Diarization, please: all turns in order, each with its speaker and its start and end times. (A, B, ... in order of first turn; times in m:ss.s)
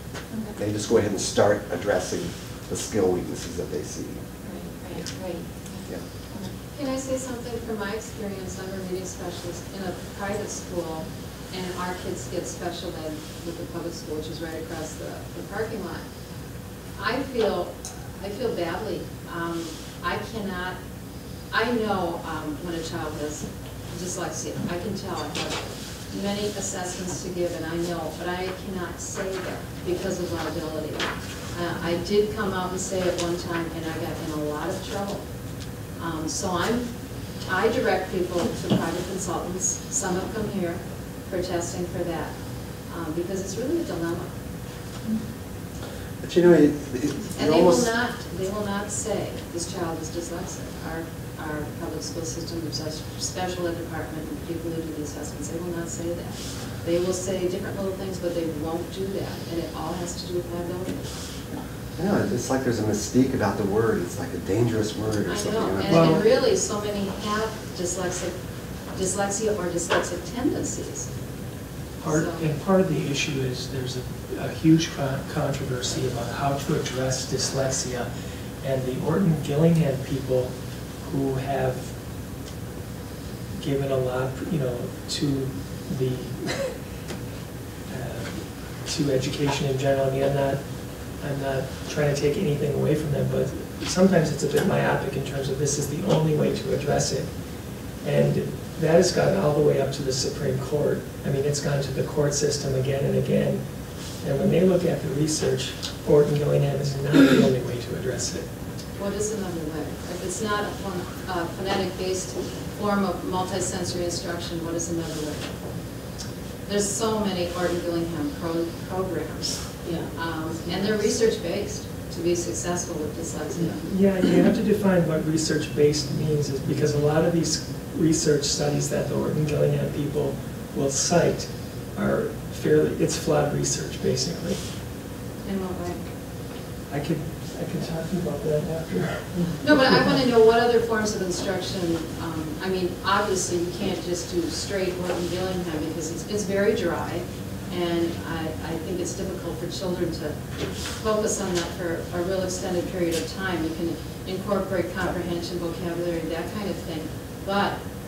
0:00.3-0:00.6 A
0:00.5-0:04.2 B
0:04.4-0:06.5 A
0:06.7-0:16.0 C
0:17.0-0:20.8 C
0:21.5-0:35.2 C
0:36.0-0:36.9 C
0:37.4-0:44.3 C
0:46.2-0:47.9 B
0:47.3-1:01.1 C
1:02.0-1:06.2 B
1:05.3-1:08.3 C
1:05.9-1:06.2 D
1:08.9-1:11.1 C
1:12.0-1:18.1 D
1:12.1-1:12.5 C
1:18.6-1:22.0 D
1:23.6-1:26.8 D
1:27.9-1:48.5 D
1:49.0-1:55.5 C
1:56.6-2:03.8 C
2:03.6-2:14.6 D
2:15.4-2:16.0 C
2:16.9-2:20.2 D
2:19.6-2:30.4 C
2:30.9-2:37.8 C